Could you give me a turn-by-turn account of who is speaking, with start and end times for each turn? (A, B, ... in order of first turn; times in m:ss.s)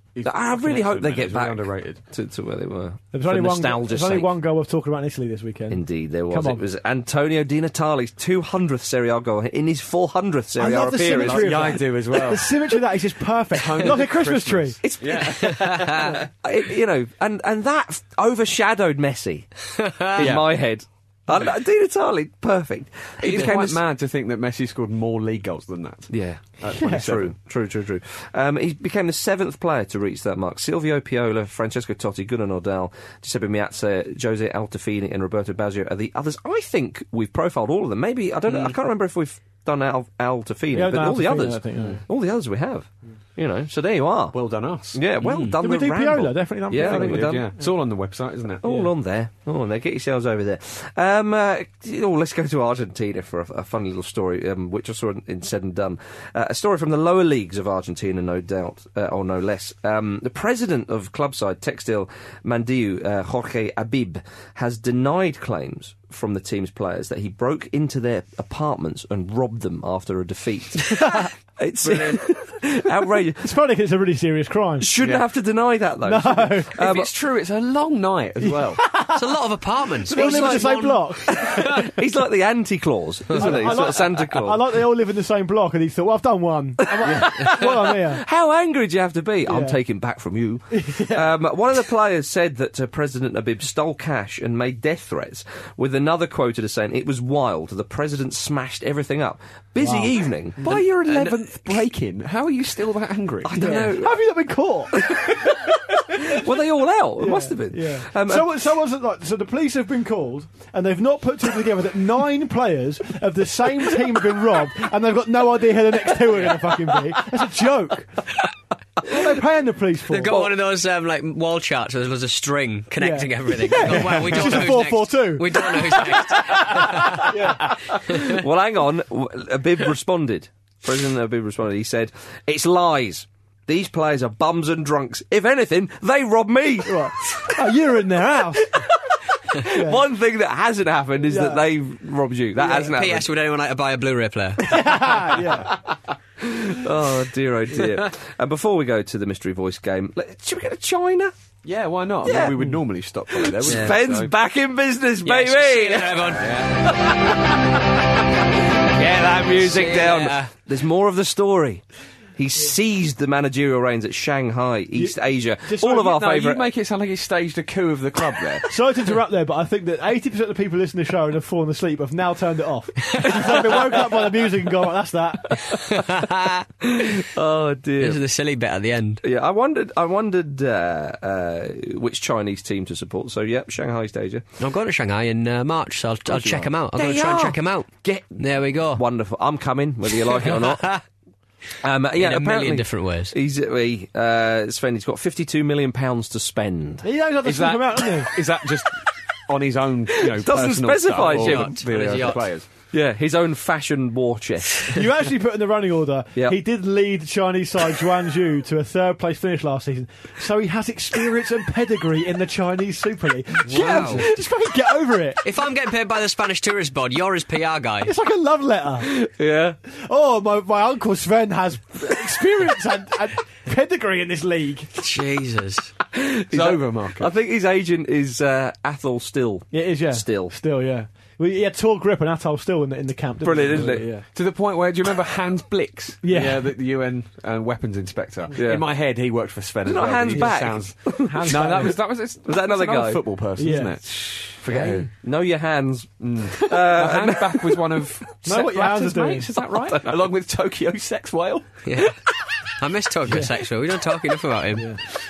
0:00.1-0:02.0 A
0:00.2-0:04.3 B
0:03.1-0:06.6 C
0:05.7-0:11.8 B
0:10.6-0:14.8 C
0:11.1-0:12.7 A
0:13.6-0:16.2 A
0:14.8-0:19.6 B
0:15.4-0:16.0 D
0:19.8-0:20.1 D
0:20.1-0:23.8 B
0:20.2-0:20.5 A
0:23.2-0:27.3 A
0:26.1-0:44.4 B
0:26.7-0:27.1 C
0:40.7-0:42.0 C
0:44.3-0:45.0 A
0:44.9-0:47.5 B
0:45.2-0:45.6 D
0:45.6-0:47.5 C
0:46.7-0:48.6 A
0:48.6-1:13.5 B
0:48.6-0:48.9 C
1:10.9-1:11.3 C
1:13.4-1:14.9 C
1:14.8-1:17.1 B
1:16.0-1:16.8 C
1:16.8-1:18.8 A
1:18.4-1:19.2 C
1:19.1-1:21.3 D
1:20.0-1:21.5 C
1:20.1-1:24.6 B
1:23.4-1:28.2 C
1:26.9-1:41.3 B
1:29.4-1:29.8 C
1:30.7-1:31.3 C
1:39.8-1:40.8 C
1:40.6-1:43.9 A
1:43.4-1:44.2 B
1:43.6-1:45.0 C
1:45.0-1:45.6 B
1:46.3-1:48.5 B
1:47.2-1:58.2 C
1:59.0-2:00.5 C
2:00.1-2:07.4 D
2:03.0-2:07.6 C
2:06.6-2:17.5 B
2:16.9-2:18.7 C
2:18.7-2:23.3 B
2:19.7-2:20.0 C
2:21.3-2:21.6 C
2:22.6-2:25.1 D
2:24.7-2:25.7 C
2:26.4-2:31.3 B
2:31.6-2:34.3 A
2:32.2-2:32.6 B
2:33.3-2:37.6 B
2:33.6-2:34.0 D
2:35.2-2:36.6 D
2:36.4-2:36.7 A
2:38.9-2:41.8 B
2:39.6-2:40.5 D
2:42.4-2:46.7 B
2:45.0-2:46.0 C
2:45.8-2:48.7 A
2:48.7-2:55.6 C
2:53.4-2:54.1 B
2:55.9-2:56.7 D
2:56.8-2:58.2 B
2:58.0-2:59.2 D
2:59.2-3:04.4 B
3:04.6-3:09.0 D
3:06.3-3:11.0 B
3:10.1-3:11.0 D
3:11.8-3:17.0 B
3:12.2-3:13.4 D
3:17.0-3:18.3 C
3:17.4-3:22.7 A
3:20.2-3:22.3 B
3:21.2-3:22.5 D
3:22.9-3:25.0 B
3:24.9-3:35.4 C
3:33.7-3:34.3 D
3:33.7-3:34.2 B
3:35.4-3:38.1 D
3:38.0-3:39.1 C
3:39.0-3:39.8 B
3:39.9-3:44.9 C
3:45.0-3:45.9 D
3:46.1-3:50.5 B
3:46.5-3:47.3 A
3:49.7-3:54.2 C
3:53.4-3:54.1 B
3:54.3-4:05.1 A
3:56.2-3:56.8 C
3:58.6-3:58.9 B
3:59.8-4:08.1 B
4:00.3-4:02.0 C
4:03.6-4:04.0 C
4:06.2-4:11.7 A
4:08.4-4:09.5 C
4:09.9-4:10.2 B
4:11.9-4:12.1 D
4:12.8-4:14.9 D
4:13.3-4:13.5 C